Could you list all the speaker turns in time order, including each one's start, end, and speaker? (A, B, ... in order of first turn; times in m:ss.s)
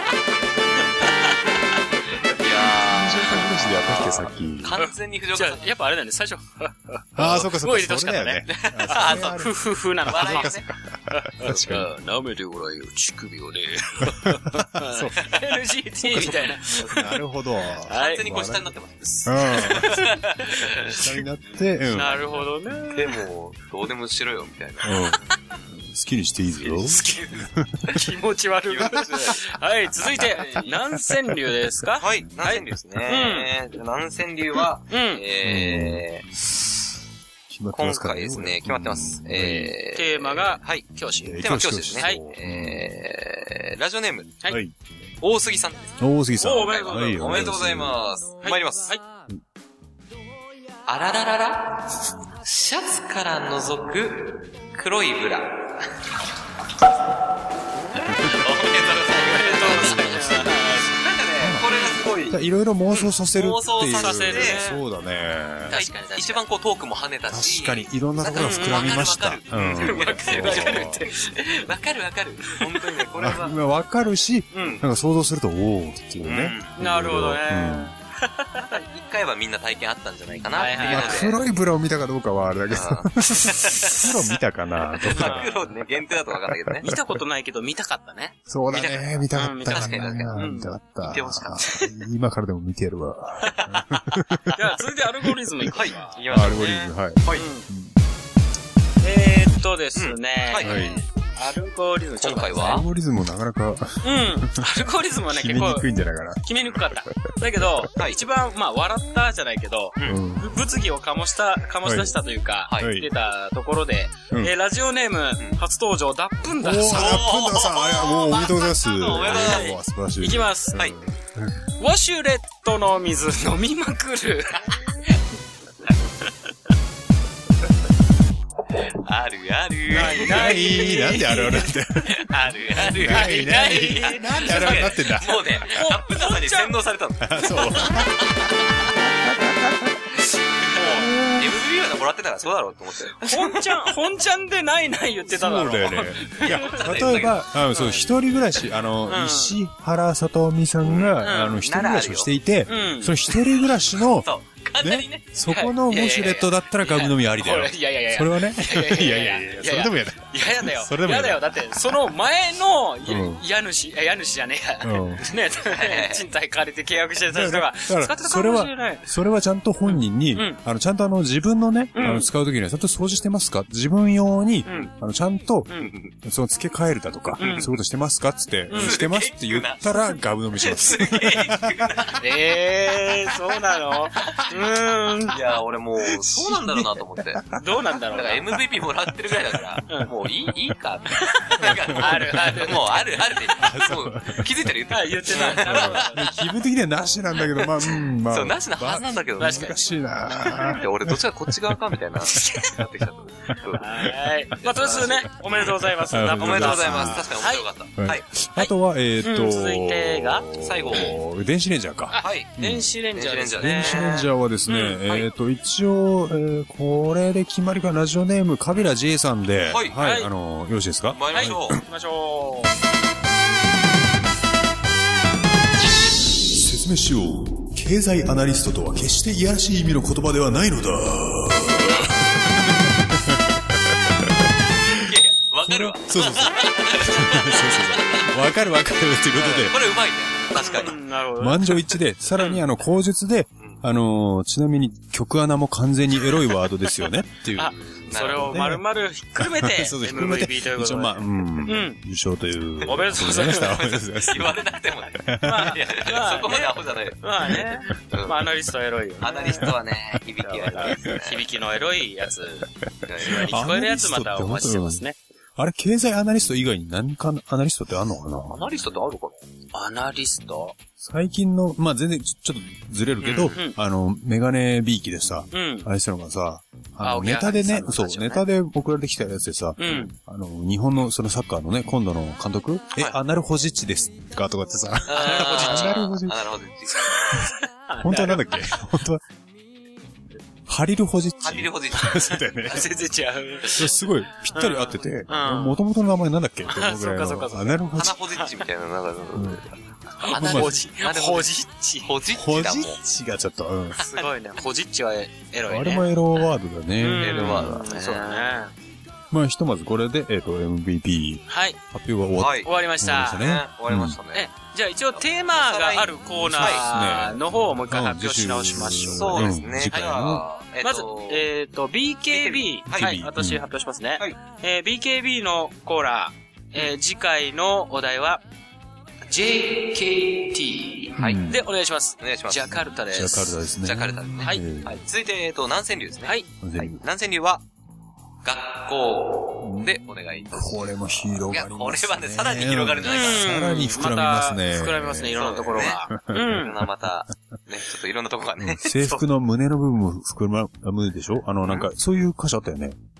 0:02.3-0:05.7 A
0:02.4-0:04.8 B
0:04.8-0:10.5 C
0:07.2-0:11.8 B
0:08.5-0:09.4 A
0:10.0-0:10.7 A
0:11.1-0:17.2 C
0:14.2-0:15.3 B
0:16.0-0:18.7 B
0:16.7-0:17.0 A
0:17.8-0:18.2 C
0:17.9-0:21.0 A
0:19.2-0:20.2 B
0:19.5-0:21.0 C
0:20.8-0:22.2 B
0:21.9-0:23.2 C
0:22.9-0:25.0 A
0:24.8-0:25.2 B
0:25.8-0:28.0 B
0:26.6-0:27.5 A
0:27.9-0:33.5 C
0:28.7-0:29.4 A
0:30.2-0:30.7 A
0:32.0-0:36.2 A
0:34.9-0:35.2 C
0:35.4-0:36.0 B
0:37.5-0:39.7 B
0:37.7-0:40.8 A
0:39.9-0:41.4 C
0:41.2-0:42.8 B
0:41.4-0:44.4 A
0:42.0-0:42.2 C
0:44.5-0:44.7 B
0:45.2-0:48.9 A
0:46.0-0:48.0 B
0:46.4-0:47.3 C
0:48.4-0:49.0 C
0:50.9-0:55.7 A
0:57.9-1:02.4 A
0:58.1-0:58.5 B
0:59.2-1:01.0 C
0:59.6-1:00.7 B
1:01.6-1:01.9 C
1:02.3-1:05.8 B
1:03.3-1:04.6 A
1:04.0-1:04.8 C
1:05.7-1:06.4 C
1:05.7-1:13.6 A
1:07.3-1:11.0 B
1:08.3-1:09.1 C
1:09.6-1:11.3 C
1:13.2-1:17.9 B
1:14.5-1:14.8 C
1:16.2-1:16.8 A
1:16.8-1:18.7 C
1:18.7-1:21.4 A
1:20.5-1:21.3 C
1:20.8-1:25.6 B
1:22.7-1:24.2 A
1:25.1-1:26.9 A
1:25.1-1:25.6 C
1:26.3-1:26.8 B
1:26.8-1:28.3 C
1:28.5-1:34.6 B
1:28.7-1:30.5 A
1:29.3-1:30.7 C
1:31.0-1:31.8 A
1:33.4-1:37.6 C
1:35.7-1:37.5 A
1:36.3-1:38.0 B
1:39.0-1:42.8 C
1:40.0-1:41.0 A
1:40.6-1:41.0 B
1:42.2-1:42.8 A
1:42.5-1:44.7 B
1:44.0-1:45.9 C
1:45.3-1:47.9 B
1:46.4-1:57.2 C
1:50.0-1:50.6 B
1:51.8-1:52.1 B
1:52.8-1:53.1 B
1:56.5-2:01.5 B
1:56.9-1:59.8 A
1:59.2-1:59.6 C
2:00.2-2:00.8 C
2:01.8-2:04.7 C
2:08.9-2:10.6 A
2:09.9-2:11.7 C
2:10.0-2:15.8 B
2:12.0-2:18.6 A
2:13.0-2:14.9 C
2:15.6-2:16.7 C
2:17.2-2:18.3 B
2:19.2-2:19.9 B
2:20.2-2:21.1 C
2:20.6-2:23.9 A
2:20.9-2:21.5 B
2:23.2-2:28.0 C
2:25.3-2:34.3 B
2:26.3-2:27.4 A
2:29.0-2:29.6 C
2:30.8-2:32.3 A
2:31.2-2:31.6 C
2:32.7-2:33.4 C
2:34.2-2:35.3 A
2:34.8-2:42.0 B
2:35.5-2:49.1 C
2:43.0-2:43.4 B
2:44.8-2:45.2 B
2:45.6-2:46.3 A
2:47.3-3:02.0 B
2:49.8-2:50.6 C
2:51.9-2:52.3 C
2:54.6-2:54.9 C
2:55.8-2:56.1 A
2:57.4-2:57.7 C
2:57.4-2:57.7 A
2:58.7-2:58.9 C
2:58.7-3:02.2 A
3:02.1-3:05.4 C
3:04.2-3:04.6 A
3:05.3-3:07.5 A
3:06.0-3:07.6 B
3:07.6-3:08.6 C
3:08.1-3:16.1 A
3:08.8-3:09.8 B
3:11.1-3:13.2 C
3:11.8-3:12.6 B
3:13.5-3:14.7 B
3:14.9-3:16.3 C
3:15.4-3:21.5 B
3:18.3-3:23.9 A
3:19.4-3:19.8 C
3:22.2-3:22.6 B
3:22.3-3:22.7 C
3:23.8-3:27.6 C
3:23.8-3:24.1 B
3:24.6-3:25.7 A
3:24.8-3:27.4 B
3:26.4-3:28.2 A
3:28.0-3:32.8 B
3:29.2-3:30.5 C
3:30.6-3:31.2 A
3:32.1-3:35.3 C
3:32.2-3:32.5 A
3:33.1-3:34.3 A
3:33.6-3:41.8 B
3:39.6-3:40.0 A
3:40.0-3:40.3 C
3:41.1-3:41.8 A
3:41.3-3:42.7 C
3:46.4-3:55.1 B
3:54.9-3:58.3 A
3:55.6-3:59.7 B
3:59.1-4:01.0 A
4:00.5-4:01.8 C
4:01.4-4:15.8 B
4:02.3-4:02.6 C
4:07.6-4:12.0 C
4:08.0-4:08.6 A
4:12.8-4:13.8 C
4:12.9-4:17.2 A
4:15.4-4:19.7 C
4:18.1-4:18.5 A
4:19.2-4:21.5 A
4:20.5-4:22.7 C
4:20.8-4:21.1 B
4:23.0-4:23.6 A
4:23.2-4:25.2 C
4:23.3-4:25.0 B
4:25.6-4:28.6 B
4:28.5-4:29.4 A
4:29.7-4:30.7 C
4:31.0-4:46.6 B
4:33.2-4:33.8 C
4:35.5-4:35.9 C
4:37.0-4:38.4 C
4:39.8-4:40.1 C
4:45.1-4:47.1 A
4:45.1-4:46.0 C
4:47.0-4:48.7 C
4:48.0-4:49.2 B
4:50.7-4:52.9 B
4:51.4-4:52.3 A
4:52.6-4:55.8 C
4:53.7-4:58.2 B
4:56.6-4:58.5 C
4:57.9-5:03.0 A
4:59.3-4:59.6 B
5:00.2-5:02.1 C
5:00.3-5:00.8 B
5:02.3-5:04.0 B
5:04.0-5:06.1 C
5:04.1-5:04.6 A
5:05.7-5:07.8 B
5:07.0-5:08.7 C
5:07.2-5:08.6 A
5:09.3-5:14.2 B
5:11.5-5:11.8 C
5:12.4-5:12.7 A
5:12.6-5:13.5 C
5:13.3-5:14.5 A
5:14.3-5:20.2 C
5:15.5-5:16.8 A
5:16.3-5:20.4 B
5:19.1-5:21.5 A
5:20.8-5:28.4 C
5:22.3-5:23.1 A
5:22.9-5:23.6 B
5:29.3-5:33.6 C
5:31.1-5:31.6 B
5:31.2-5:31.5 A
5:32.2-5:32.8 A
5:33.1-5:35.0 B
5:33.8-5:37.6 A
5:36.6-5:37.0 B
5:38.4-5:43.6 A
5:39.6-5:39.9 B
5:40.5-5:46.6 B
5:43.0-5:46.7 C
5:45.3-5:49.2 A
5:48.6-5:53.0 B